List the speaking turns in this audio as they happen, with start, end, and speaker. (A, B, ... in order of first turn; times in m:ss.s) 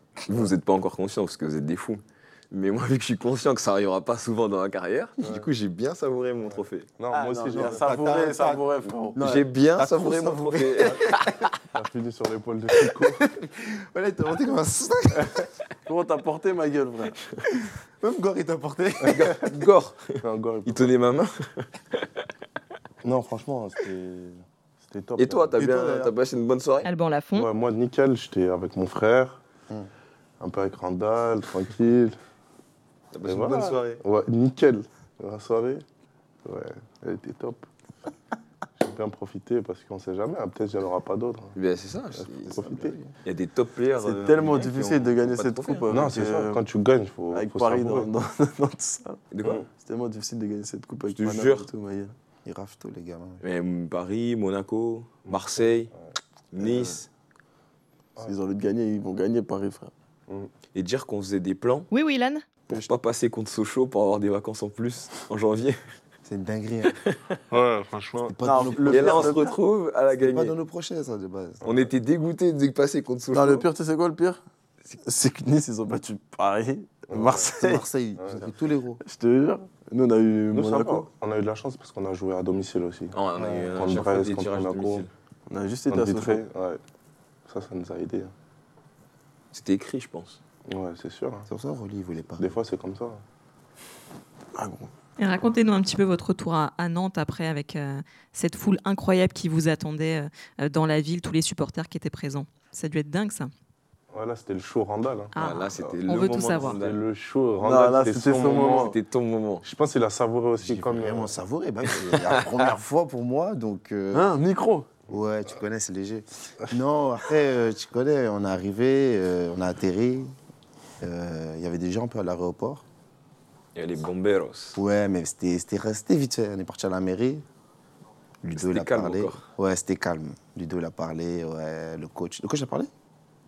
0:00.2-0:06.9 A
0:05.2-0:05.5 B
0:06.4-0:08.4 B
0:07.1-0:09.4 C
0:07.5-0:08.6 D
0:09.1-0:11.5 D
0:09.2-0:11.5 A
0:11.7-0:13.2 B
0:13.1-0:15.5 D
0:15.8-0:17.2 C
0:17.6-0:19.5 D
0:19.0-0:22.2 A
0:20.2-0:21.0 B
0:23.0-0:25.6 B
0:25.2-0:26.9 A
0:25.6-0:26.1 D
0:26.8-0:27.5 E
0:27.3-0:29.4 B
0:30.4-0:32.1 B
0:33.1-0:34.0 A
0:33.2-0:35.8 B
0:36.4-0:37.7 B
0:38.8-0:41.6 B
0:41.5-0:42.6 A
0:42.2-0:43.0 B
0:42.5-0:43.1 D
0:43.2-0:45.9 A
0:44.0-0:46.6 C
0:45.9-0:48.1 B
0:47.3-0:52.1 C
0:49.3-0:49.6 A
0:49.4-0:49.7 B
0:51.1-0:51.7 A
0:52.4-0:53.4 D
0:53.4-0:55.9 A
0:55.2-0:56.0 B
0:56.5-0:57.1 A
0:56.6-0:57.0 C
0:58.2-0:59.9 C
1:00.7-1:01.9 A
1:01.9-1:02.4 E
1:02.7-1:05.8 A
1:06.2-1:07.0 D
1:07.5-1:08.3 B
1:08.1-1:09.3 D
1:08.4-1:09.6 C
1:08.8-1:10.5 A
1:10.1-1:11.6 D
1:11.6-1:11.9 B
1:11.6-1:13.6 A
1:13.3-1:17.8 C
1:17.1-1:17.6 B
1:17.6-1:19.0 D
1:18.2-1:18.5 B
1:19.0-1:21.1 C
1:20.5-1:25.1 B
1:23.1-1:25.1 A
1:25.5-1:26.4 C
1:25.9-1:26.8 B
1:27.5-1:28.3 B
1:29.5-1:30.4 A
1:30.7-1:31.5 B
1:31.5-1:32.6 D
1:32.4-1:33.2 B
1:34.5-1:34.9 C
1:35.2-1:43.5 E
1:44.1-1:46.0 B
1:45.3-1:46.8 E
1:45.4-1:47.0 A
1:46.7-1:48.9 B
1:47.6-1:49.0 C
1:48.7-1:49.6 A
1:49.6-1:51.3 B
1:50.6-1:54.3 D
1:54.1-1:54.9 C
1:55.1-2:00.3 D
2:01.0-2:02.8 D
2:03.7-2:04.8 A
2:04.7-2:07.4 D
2:08.4-2:12.9 D
2:08.5-2:09.4 A